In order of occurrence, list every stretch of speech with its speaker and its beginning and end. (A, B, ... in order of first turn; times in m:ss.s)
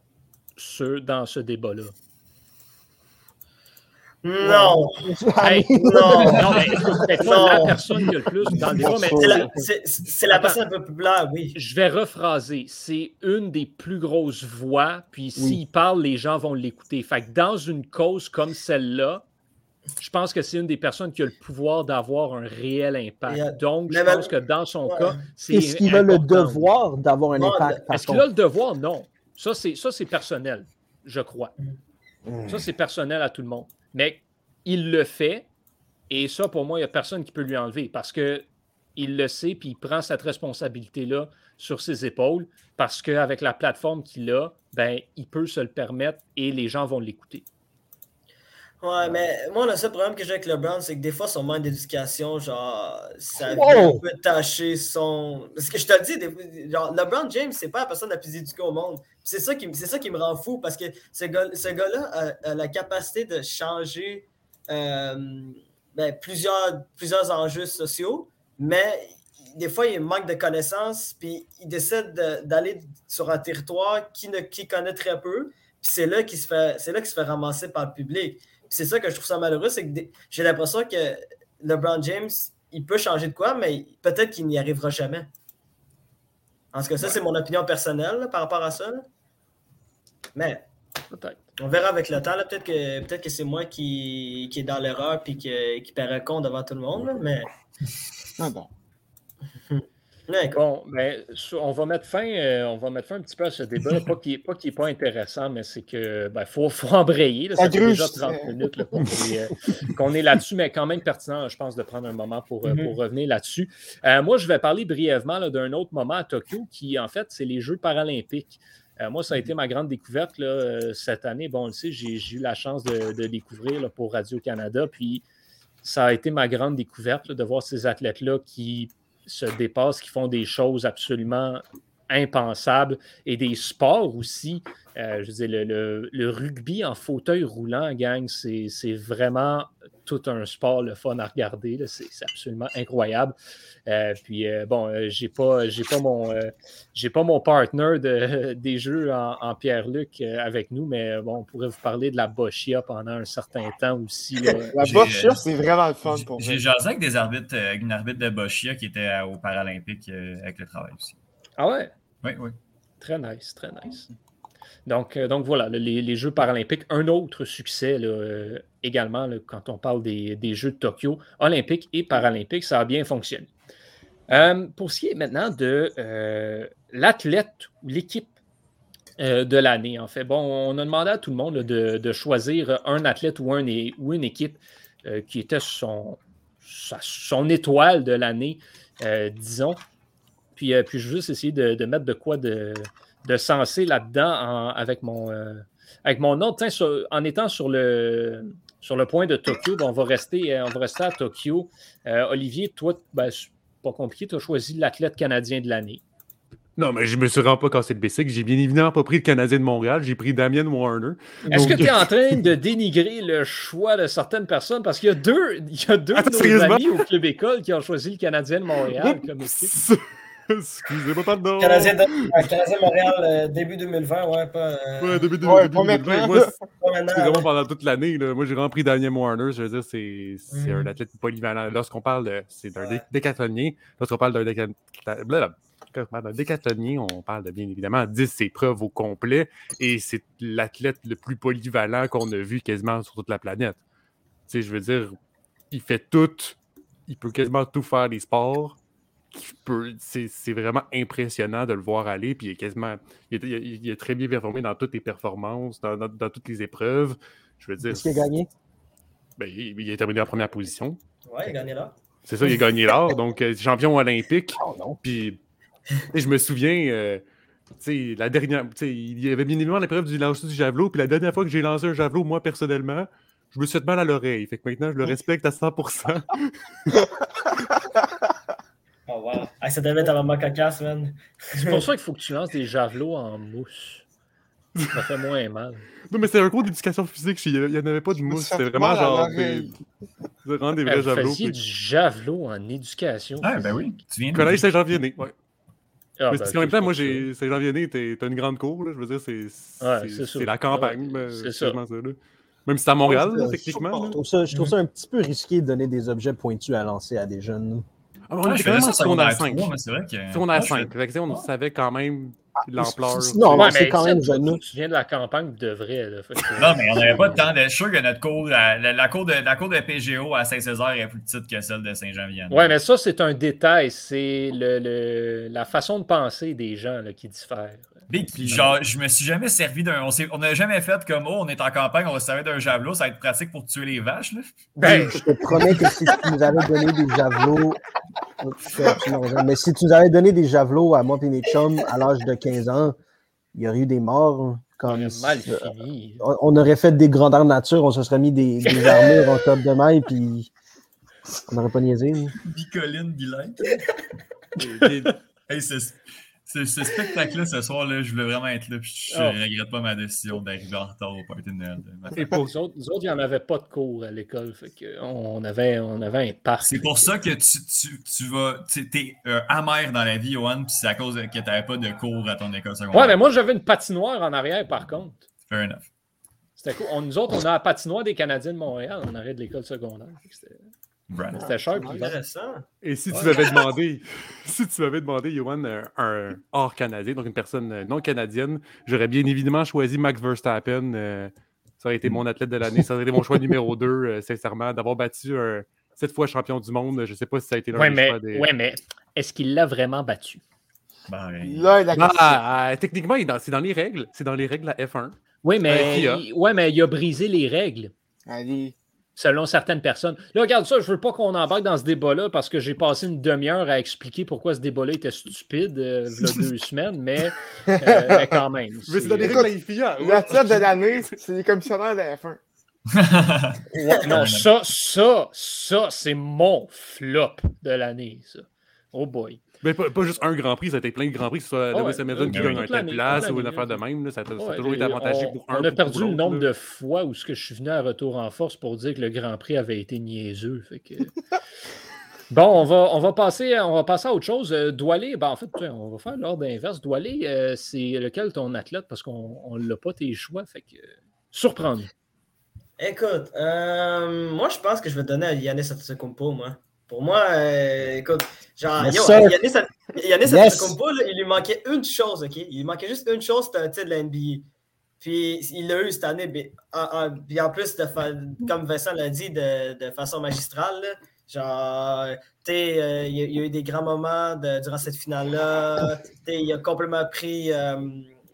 0:00.6-0:01.9 A
0:04.2-0:05.0 B
0:04.4-0:07.8 C
0:05.4-0:09.5 A
0:05.8-0:07.8 B
0:08.5-0:09.7 C
0:08.9-0:11.6 B
0:10.3-0:10.6 A
0:11.6-0:19.2 A
0:15.4-0:15.6 C
0:20.0-0:26.7 A
0:23.3-0:25.2 B
0:25.5-0:28.3 C
0:27.4-0:27.8 B
0:27.9-0:31.5 A
0:32.3-0:32.7 C
0:32.5-0:35.5 A
0:36.1-0:47.5 A
0:48.8-1:25.3 B
0:53.4-0:54.0 C
1:26.7-1:29.1 B
1:30.4-1:30.7 B
1:31.1-1:31.4 A
1:31.6-1:37.5 B
1:38.4-1:38.7 D
1:39.7-1:40.6 B
1:40.5-2:05.2 A
1:47.6-1:48.5 D
1:52.7-1:52.9 B
2:05.8-2:23.3 A
2:23.9-2:34.8 A
2:34.7-2:36.6 D
2:34.8-2:35.5 E
2:36.0-2:41.2 E
2:41.6-2:41.9 A
2:42.2-2:42.6 E
2:43.0-2:44.1 A
2:44.9-2:53.5 A
2:54.3-2:58.3 A
2:59.2-3:09.8 A
3:10.6-3:26.0 A
3:26.8-3:32.4 F
3:31.5-3:39.7 A
3:36.2-3:37.0 F
3:39.0-3:42.4 F
3:41.6-3:45.3 B
3:45.0-4:03.8 F
3:45.4-3:46.6 D
3:46.8-3:47.5 B
3:50.5-3:50.9 B
3:52.8-3:53.0 B
4:04.5-4:05.2 F
4:05.7-4:08.8 F
4:09.3-4:18.2 F
4:17.8-4:18.5 C
4:19.4-4:21.0 F
4:21.3-4:22.0 B
4:22.3-4:25.4 F
4:24.6-4:25.0 C
4:26.1-4:27.2 F
4:27.8-4:37.0 F
4:39.1-4:41.8 B
4:41.5-4:44.0 A
4:44.8-4:45.1 F
4:44.9-4:45.9 A
4:46.1-4:49.7 F
4:48.2-4:49.7 D
4:50.4-4:51.6 F
4:50.9-4:53.8 A
4:53.4-4:54.6 E
4:54.3-4:55.4 F
4:56.2-4:57.3 A
4:56.3-5:04.2 F
4:59.8-5:01.8 A
5:03.1-5:07.9 C
5:03.1-5:04.1 D
5:08.3-5:09.7 F
5:08.4-5:10.9 E
5:10.3-5:13.7 F
5:12.7-5:14.6 C
5:13.6-5:17.4 A
5:16.6-5:22.8 E
5:17.1-5:17.3 F
5:22.5-5:28.0 A
5:28.1-5:34.7 E
5:28.4-5:28.8 F
5:34.8-5:37.8 C
5:34.8-5:35.2 A
5:38.4-5:43.0 C
5:43.6-5:50.5 C
5:44.9-5:46.2 A
5:51.5-5:52.4 C
5:52.4-5:53.8 E
5:54.6-5:55.2 F
5:55.5-6:02.2 E
5:59.1-5:59.4 A
6:02.1-6:07.1 A
6:06.6-6:13.2 E
6:12.9-6:15.2 A
6:15.5-6:15.9 E
6:16.6-6:20.6 A
6:21.1-6:21.5 E
6:21.3-6:22.2 A
6:21.4-6:22.0 D
6:22.0-6:23.5 B
6:22.8-6:38.5 F
6:37.7-6:40.4 A
6:41.1-6:41.7 E
6:41.4-6:42.4 D
6:41.9-6:46.2 F
6:45.4-6:47.9 A
6:48.3-6:48.8 D
6:49.2-6:59.4 A
6:57.7-6:58.4 D
6:58.9-7:01.2 F
6:59.2-7:02.4 D
7:02.9-7:04.5 E
7:03.8-7:09.4 A
7:09.6-7:16.5 F
7:11.7-7:13.8 A
7:12.3-7:12.6 E
7:14.4-7:21.2 A
7:22.3-7:31.9 A
7:32.8-7:44.5 B
7:38.8-7:39.4 C
7:40.2-7:40.8 C
7:45.0-7:58.1 B